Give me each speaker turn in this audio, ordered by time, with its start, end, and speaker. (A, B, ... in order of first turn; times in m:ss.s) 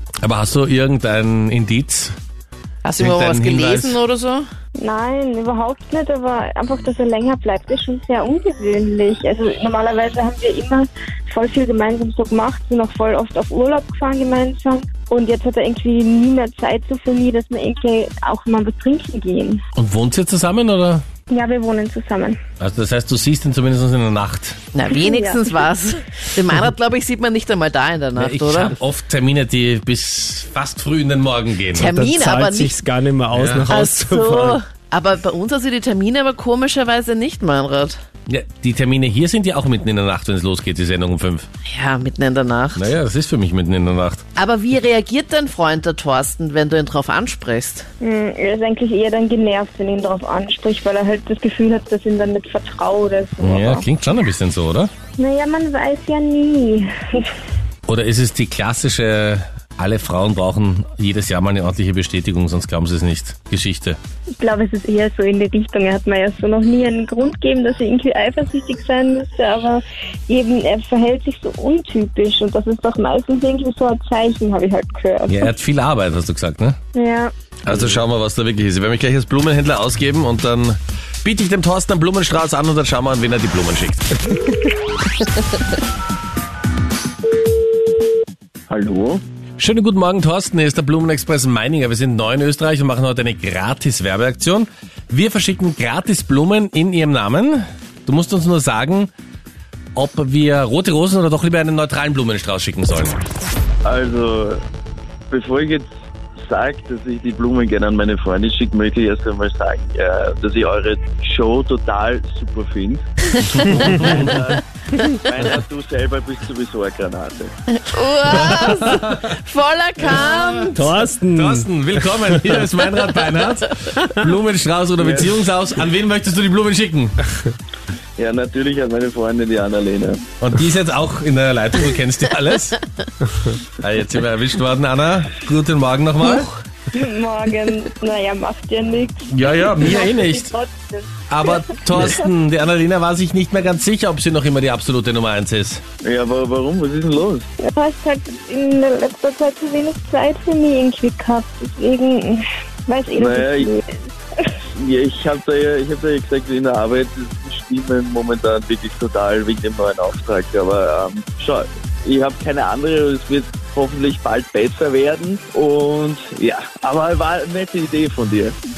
0:00.2-0:02.2 A
0:02.8-0:04.5 B
0:03.0-0:04.0 A
0:04.8-0:19.6 C
0:19.8-0:21.0 A
0:21.3-0:22.4 C
0:22.6-0:24.6 A
0:24.7-0:28.8 B
0:24.9-0:25.4 C
0:28.2-0:31.9 A
0:31.8-0:32.8 B
0:31.9-0:34.6 D
0:33.4-0:33.8 A
0:33.7-0:38.0 B
0:38.3-0:41.5 A
0:41.7-0:42.9 B
0:42.8-0:44.2 A
0:44.4-0:47.9 B
0:48.0-0:53.9 C
0:53.4-0:54.9 A
0:55.2-0:57.3 C
0:57.9-1:04.0 A
1:04.3-1:15.5 C
1:15.3-1:16.8 A
1:16.9-1:17.3 C
1:17.6-1:24.1 A
1:28.7-1:29.2 E
1:29.6-1:39.1 A
1:40.0-1:43.2 A
1:43.8-1:44.6 E
1:45.3-1:45.9 E
1:46.4-1:53.0 E
1:53.5-1:54.3 A
1:53.7-1:57.5 E
1:57.8-2:00.9 B
2:00.8-2:02.5 D
2:01.3-2:07.2 A
2:05.0-2:05.3 E
2:08.2-2:10.2 E
2:10.4-2:12.8 A
2:13.8-2:16.5 A
2:16.9-2:22.3 C
2:19.3-2:20.5 A
2:21.3-2:25.8 A
2:26.0-2:27.5 E
2:27.6-2:34.2 C
2:33.2-2:33.7 E
2:34.8-2:48.6 E